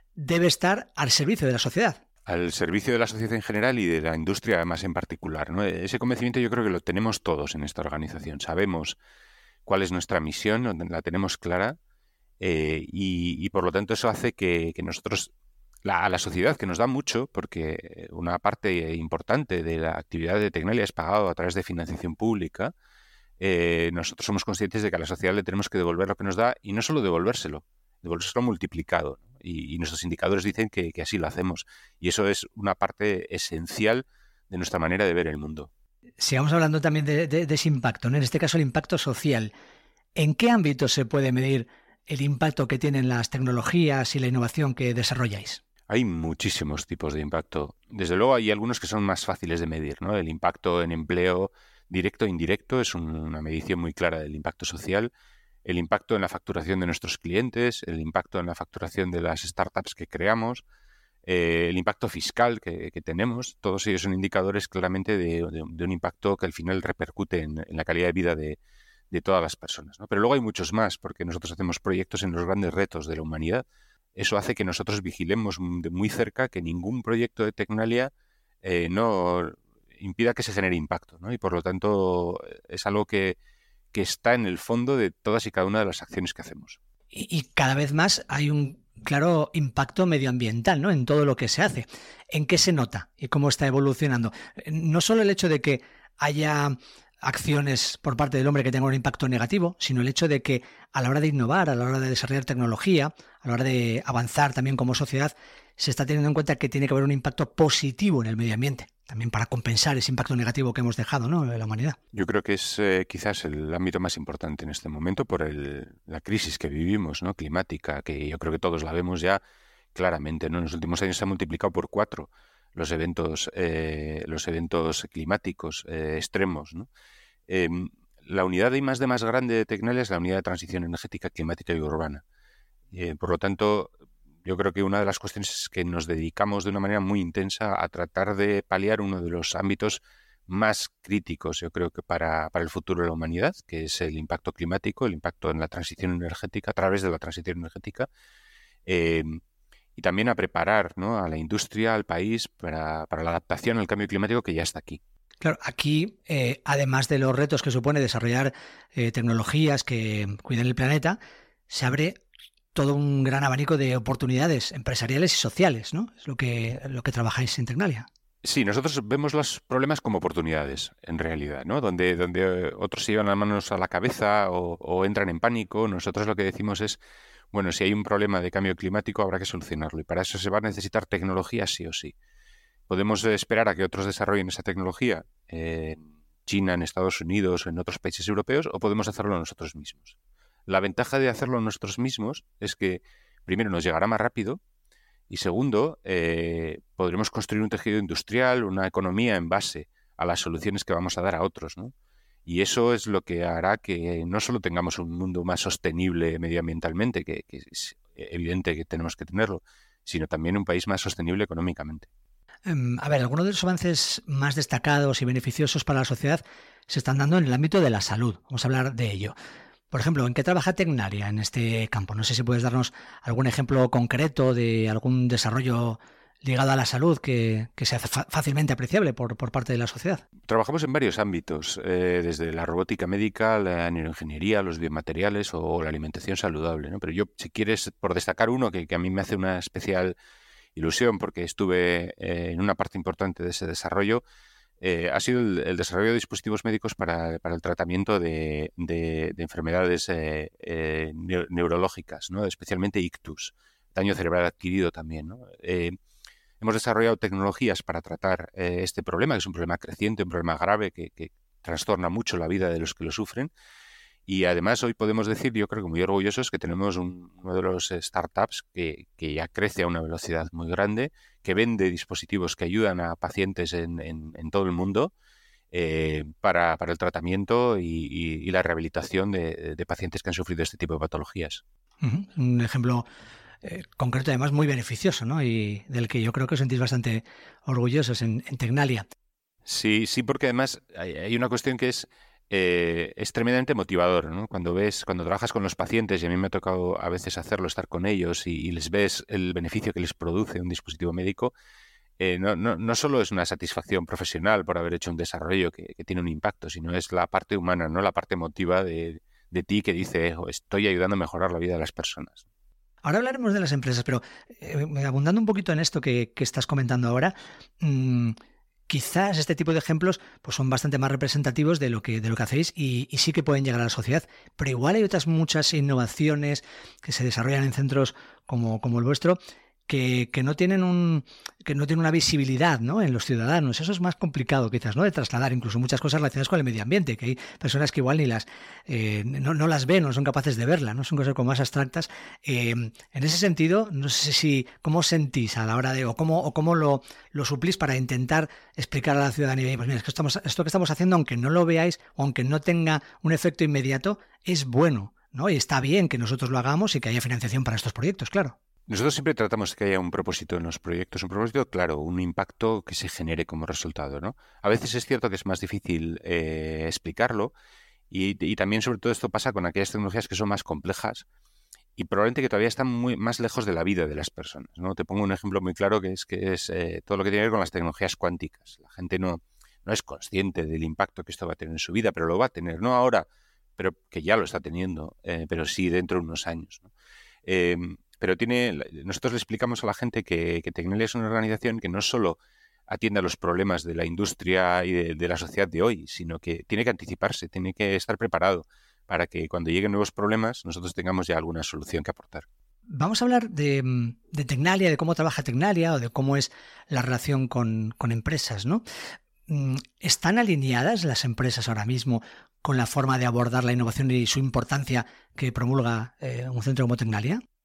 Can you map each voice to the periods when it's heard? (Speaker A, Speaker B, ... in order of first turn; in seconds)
Speaker A: 0.2-2.0, 36.2-39.5, 40.2-45.6, 87.1-112.0, 155.4-161.2, 161.7-162.2, 162.8-168.1, 212.7-219.3, 219.9-230.2, 282.0-283.1, 283.6-289.1, 313.0-318.4, 318.9-358.6, 402.9-408.8, 409.5-417.4
Speaker B: 2.3-9.0, 9.7-11.8, 12.4-15.3, 15.8-22.7, 23.4-35.7, 45.9-55.1, 55.6-60.6, 61.3-68.6, 69.1-83.4, 83.9-86.8, 112.1-119.4, 120.0-126.9, 127.5-132.2, 132.9-133.9, 134.4-148.1, 148.9-149.4, 150.0-155.0, 168.4-177.0, 177.5-182.1, 182.9-190.2, 190.7-194.6, 195.3-201.9, 202.5-212.1, 230.5-240.2, 240.8-244.2, 244.8-256.0, 256.6-263.5, 264.3-275.1, 275.7-281.6, 289.7-301.5, 302.2-312.4, 358.9-367.5, 368.1-371.2, 372.0-386.9, 387.5-402.5